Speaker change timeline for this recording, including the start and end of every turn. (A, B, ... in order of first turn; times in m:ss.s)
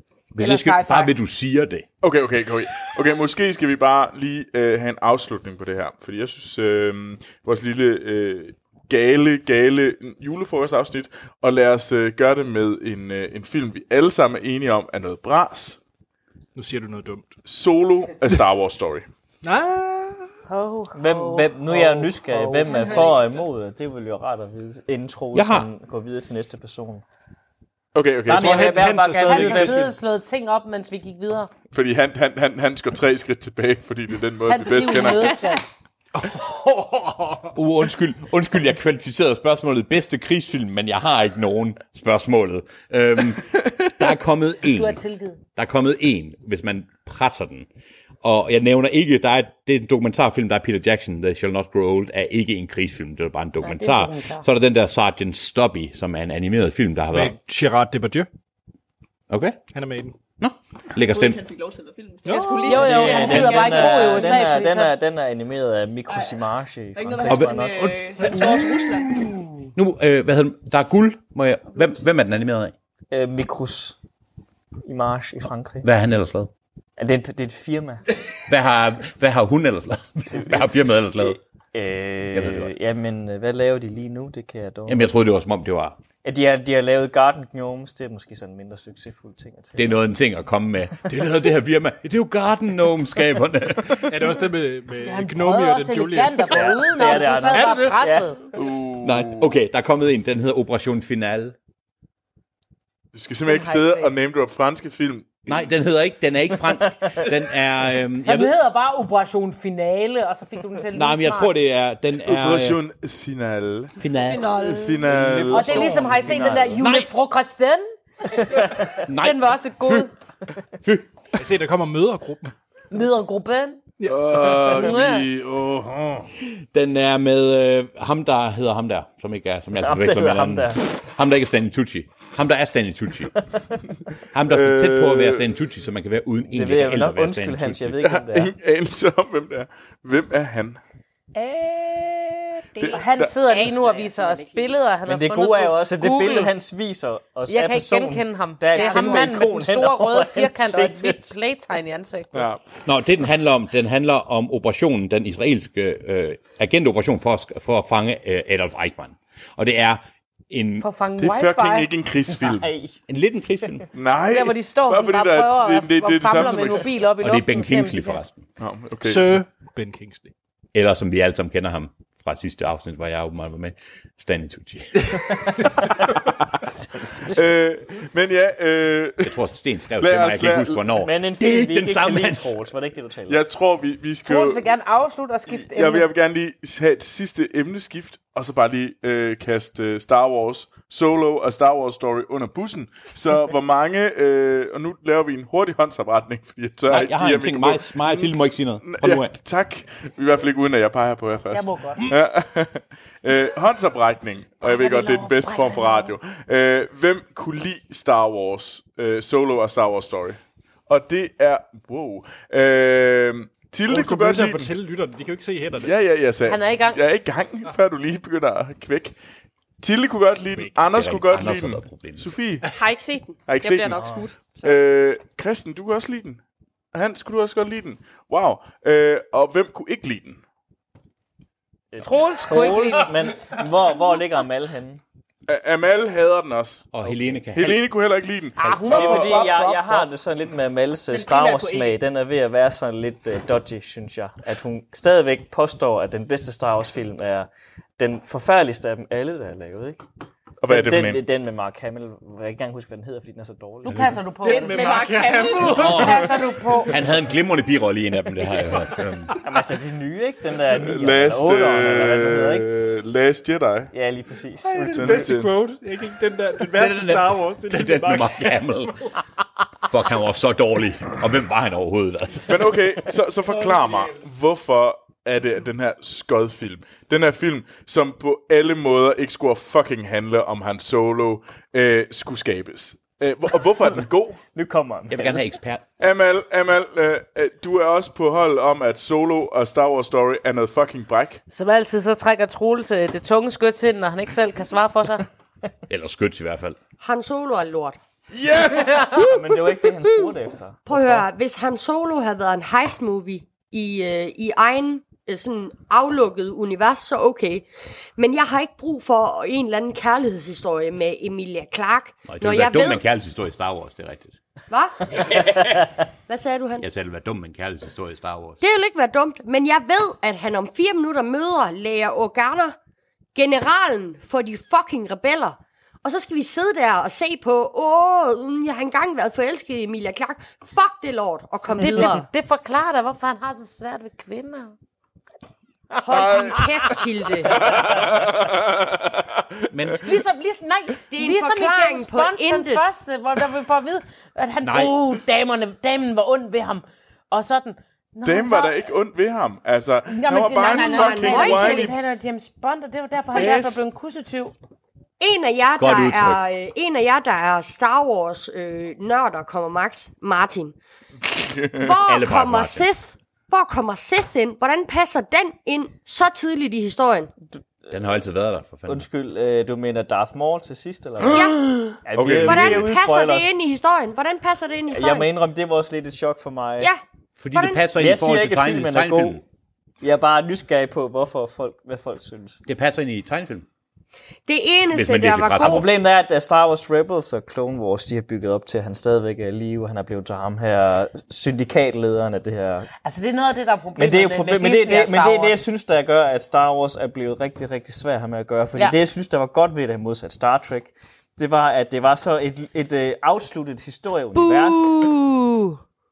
0:00.3-0:01.9 A
0:00.4-0:01.1 B
0:02.0-0:15.8 C
0:16.6-0:17.4 D
0:17.5-0:19.1 C
0:19.4-0:20.3 D
0:20.5-0:23.2 B
0:20.9-0:27.0 E
0:25.3-0:25.7 A
0:27.9-0:28.9 C
0:28.3-0:29.9 E
0:28.3-0:30.0 D
0:29.2-0:31.5 B
0:31.7-0:35.5 C
0:34.5-0:35.6 B
0:34.8-0:35.6 F
0:36.2-0:37.6 D
0:37.6-0:45.0 A
0:44.7-0:45.4 B
0:45.6-0:47.7 A
0:48.2-0:57.4 A
0:53.6-0:54.4 B
0:57.1-0:58.3 D
0:59.3-0:59.6 A
0:59.7-1:00.2 D
1:00.4-1:01.4 A
1:01.0-1:04.2 G
1:02.2-1:04.1 D
1:02.3-1:03.1 F
1:02.7-1:04.9 B
1:02.7-1:07.8 E
1:06.1-1:06.4 G
1:06.9-1:09.3 G
1:07.3-1:08.8 A
1:09.8-1:12.7 A
1:13.1-1:14.0 E
1:14.9-1:15.9 E
1:15.8-1:16.5 A
1:17.0-1:18.0 E
1:18.5-1:21.4 A
1:20.3-1:25.1 E
1:22.3-1:22.7 A
1:24.9-1:26.0 A
1:26.2-1:30.0 E
1:29.8-1:34.4 A
1:34.0-1:38.0 D
1:35.0-1:38.4 B
1:36.5-1:38.3 E
1:38.6-1:39.6 C
1:39.0-1:41.6 A
1:43.1-1:45.6 C
1:43.5-1:44.1 B
1:45.5-1:48.5 A
1:48.2-1:51.5 B
1:50.9-1:52.8 A
1:52.2-1:54.0 C
1:54.0-1:55.3 A
1:54.3-1:54.9 F
1:54.6-1:56.1 C
1:55.3-1:56.6 E
1:55.5-2:00.1 B
1:56.7-1:57.1 A
1:59.0-2:00.1 A
2:00.8-2:01.1 A
2:01.4-2:02.6 D
2:02.9-2:03.8 B
2:04.0-2:04.8 D
2:04.1-2:06.3 C
2:04.7-2:05.3 B
2:06.6-2:13.4 A
2:09.8-2:10.8 E
2:14.3-2:18.0 A
2:14.4-2:15.5 C
2:16.5-2:18.5 E
2:18.0-2:20.8 C
2:21.4-2:24.8 F
2:22.8-2:26.5 B
2:25.0-2:31.4 E
2:27.5-2:32.5 B
2:28.7-2:29.3 F
2:32.3-2:32.6 C
2:32.8-2:40.9 A
2:40.8-2:41.9 B
2:41.2-2:42.7 C
2:42.6-2:43.0 E
2:43.1-2:43.9 A
2:43.9-2:47.0 C
2:44.3-2:48.2 B
2:47.2-2:48.4 A
2:48.6-2:49.4 C
2:49.0-2:50.3 D
2:50.7-2:55.6 A
2:57.2-2:59.4 C
2:59.2-3:02.5 A
3:00.0-3:00.9 C
3:01.0-3:03.4 E
3:03.3-3:04.7 C
3:04.3-3:06.1 B
3:05.5-3:34.7 C
3:16.9-3:19.4 A
3:21.5-3:22.1 B
3:24.6-3:26.1 B
3:33.9-3:36.0 D
3:35.8-3:39.2 C
3:36.5-3:37.0 B
3:39.8-3:42.7 C
3:40.8-3:42.3 A
3:42.7-3:44.8 F
3:43.5-3:46.4 C
3:46.9-3:50.4 C
3:51.9-3:55.0 E
3:52.0-3:53.2 B
3:55.5-3:56.9 C
3:56.9-3:57.9 A
3:57.5-3:59.4 C
3:58.6-4:00.1 B
3:58.9-4:10.0 E
4:01.1-4:02.0 G
4:10.6-4:11.2 C
4:10.7-4:14.0 E
4:13.8-4:17.0 B
4:13.9-4:14.2 A
4:14.4-4:16.2 G
4:14.4-4:16.2 D
4:15.8-4:16.3 A
4:16.9-4:19.4 A
4:19.4-4:22.7 E
4:20.7-4:23.9 C
4:23.9-4:25.2 E
4:24.6-4:28.7 D
4:24.9-4:25.6 C
4:26.6-4:29.0 A
4:29.9-4:32.9 A
4:32.5-4:44.4 C
4:44.6-4:45.4 E
4:45.1-4:45.8 A
4:46.0-4:51.4 C
4:51.5-4:55.2 B
4:55.9-4:56.8 A
4:57.0-4:58.0 H
4:58.3-4:59.3 C
4:59.1-5:01.2 E
5:00.9-5:13.0 H
5:12.3-5:14.4 A
5:14.7-5:15.6 H
5:16.3-5:16.9 H
5:16.8-5:18.6 A
5:18.6-5:22.8 H
5:23.4-5:32.3 H
5:31.8-5:34.8 B
5:35.9-5:37.0 B
5:36.0-5:37.7 H
5:36.2-5:36.6 C
5:37.6-5:39.6 C
5:39.7-5:40.2 A
5:40.0-5:48.8 B
5:41.1-5:42.9 H
5:44.6-5:45.0 A
5:48.2-5:52.0 C
5:50.1-5:54.5 B
5:50.6-5:51.9 H
5:53.3-5:53.8 C
5:55.2-6:00.8 H
5:55.8-5:56.4 A
6:01.4-6:01.9 C
6:01.8-6:07.3 H
6:02.0-6:02.9 A
6:07.9-6:09.1 A
6:08.9-6:13.6 E
6:11.3-6:11.6 H
6:11.3-6:12.9 C
6:12.4-6:15.3 H
6:14.9-6:16.9 E
6:17.4-6:19.4 A
6:17.5-6:17.9 H
6:18.0-6:19.4 E
6:20.0-6:22.6 E
6:22.7-6:23.7 A
6:24.5-6:25.9 H
6:24.9-6:25.9 A
6:25.6-6:32.9 E
6:33.0-6:35.6 B
6:34.0-6:45.0 E
6:44.3-6:45.8 H